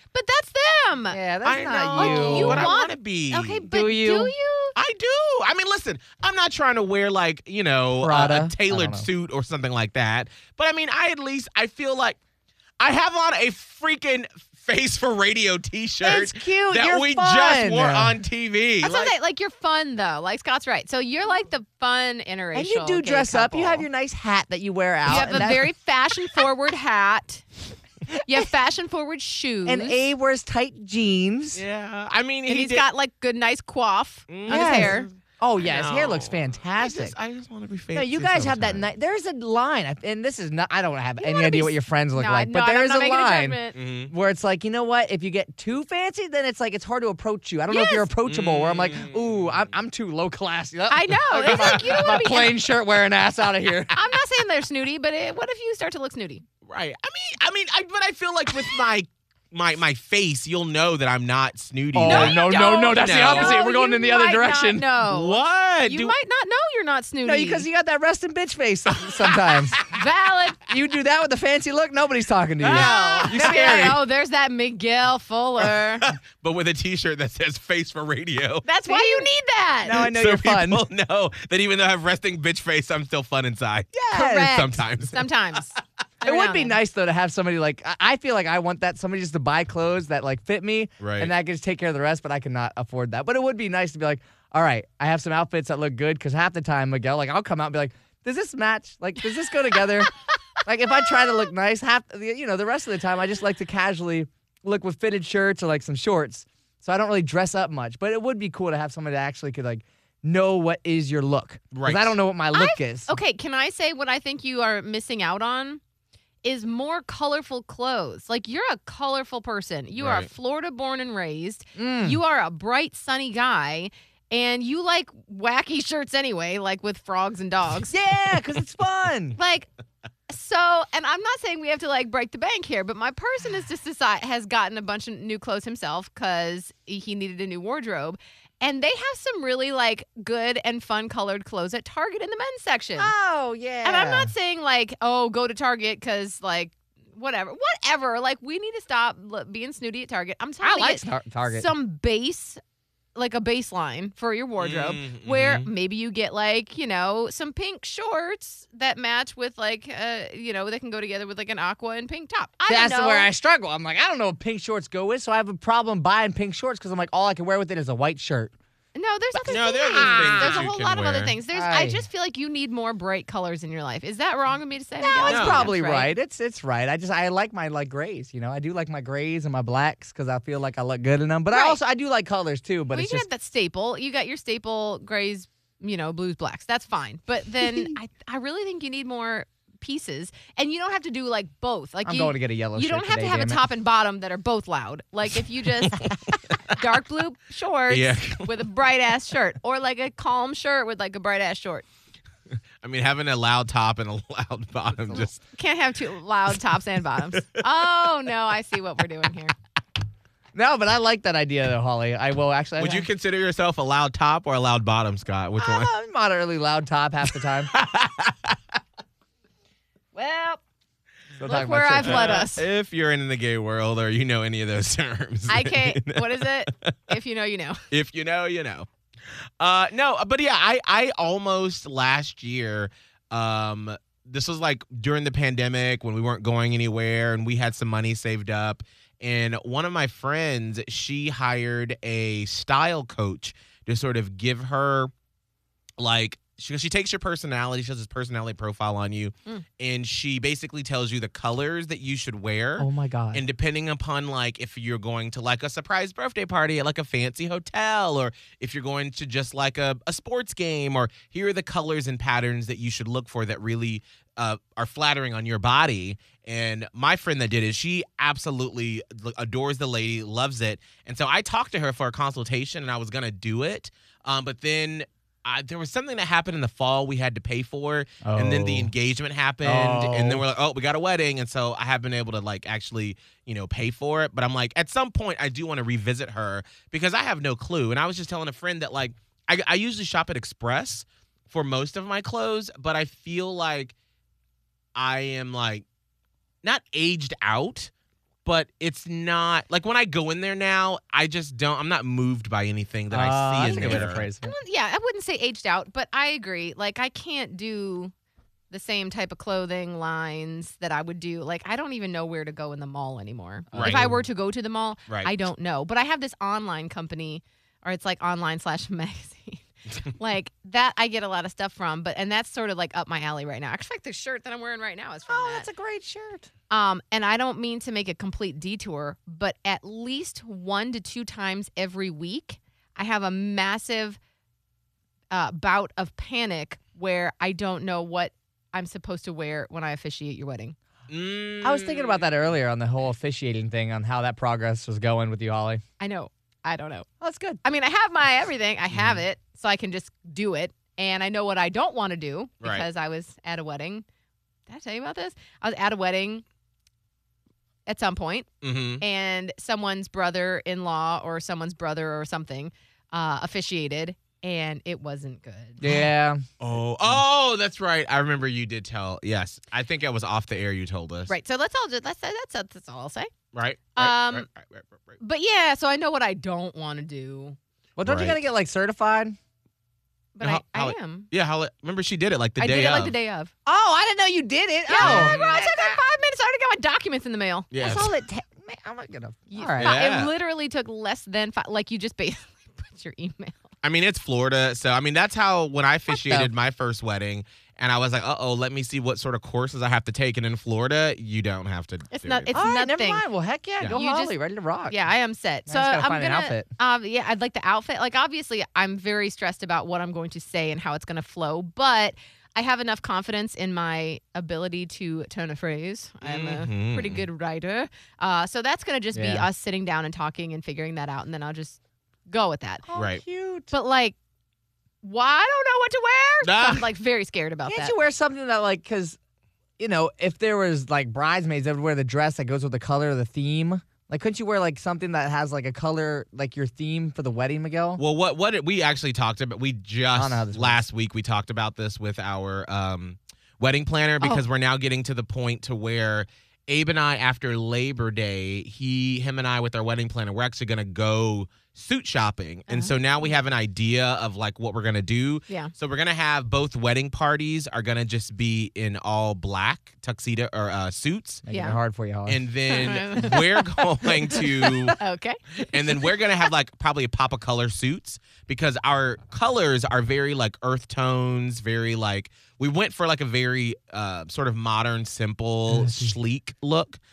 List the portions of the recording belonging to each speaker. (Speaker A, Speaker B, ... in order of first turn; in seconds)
Speaker A: 0.1-4.7, 18.8-23.9, 25.1-27.4, 28.2-30.0, 32.5-35.1, 41.2-43.8, 47.7-48.1, 50.9-52.6, 53.9-56.4, 62.0-67.7, 69.8-70.6, 72.6-76.1, 78.6-80.0, 84.1-86.8, 112.5-115.8, 116.4-128.0, 129.3-129.7, 130.3-143.1, 143.8-152.6, 153.1-163.3, 168.9-176.1, 181.5-181.8, 182.9-196.1, 196.7-201.8, 205.4-209.5, 220.1-220.6, 221.4-222.6, 225.5-227.8, 304.4-308.1, 308.7-325.7, 326.7-334.2, 335.3-340.8, 346.0-347.1, 347.6-354.0, 354.7-356.4, 357.9-358.5, 359.0-365.9, 371.3-373.3, 373.9-374.5, 375.2-377.6, 380.3-381.3, 382.6-383.5, 384.9-387.7, 389.5-393.6, 402.1-403.2, 403.9-404.4, 404.9-422.8, 423.7-424.1, 425.0-427.9, 452.7-453.3, 461.5-461.8, 462.7-466.2
Speaker B: 1.1-2.7, 3.7-4.3, 8.0-9.1, 16.0-18.2, 22.5-25.7, 29.6-31.6, 34.5-37.1, 37.9-53.9, 61.9-64.8, 67.2-69.8, 70.7-74.0, 78.9-79.3, 79.8-80.8, 83.9-84.8, 86.2-113.1, 121.8-122.2, 127.9-129.4, 143.0-144.3, 150.6-151.7, 162.7-168.5, 169.4-170.6, 171.5-172.0, 175.0-183.2, 187.6-187.9, 192.0-193.6, 210.5-213.1, 215.6-217.7, 221.4-222.4, 252.8-253.4, 278.2-278.9, 279.6-280.4, 303.1-304.5, 313.7-314.2, 325.3-326.5, 341.6-345.8, 347.2-347.6, 365.8-366.4, 378.0-379.4, 383.6-386.0, 387.8-390.0, 396.1-396.5, 402.5-405.0, 405.7-406.7, 419.1-419.5, 422.9-423.7, 427.7-429.2, 429.8-438.0, 440.1-440.8, 461.4-462.4, 464.4-464.9, 475.7-476.1
Speaker C: 1.4-3.7, 4.8-12.2, 12.8-19.1, 25.1-25.5, 31.5-32.8, 34.3-38.9, 43.7-44.1, 48.2-49.5, 51.4-52.2, 56.6-63.6, 65.1-66.1, 72.6-74.0, 76.0-78.6, 79.9-85.3, 91.0-91.3, 111.7-112.2, 120.0-120.3, 154.6-155.7, 169.5-171.3, 175.2-175.7, 197.9-198.5, 202.8-205.4, 212.8-215.9, 217.7-218.6, 222.0-226.9, 227.9-228.9, 229.6-245.1, 246.0-293.9, 294.9-295.8, 296.6-297.9, 298.4-304.2, 313.7-314.0, 341.1-342.3, 352.6-352.9, 358.6-359.0, 366.6-371.3, 373.5-375.2, 378.0-378.4, 380.4-383.1, 385.0-385.6, 387.7-388.1, 389.8-390.3, 393.8-402.5, 416.2-417.2, 422.9-423.2, 426.4-426.9, 438.0-461.4, 462.3-465.0, 465.7-477.0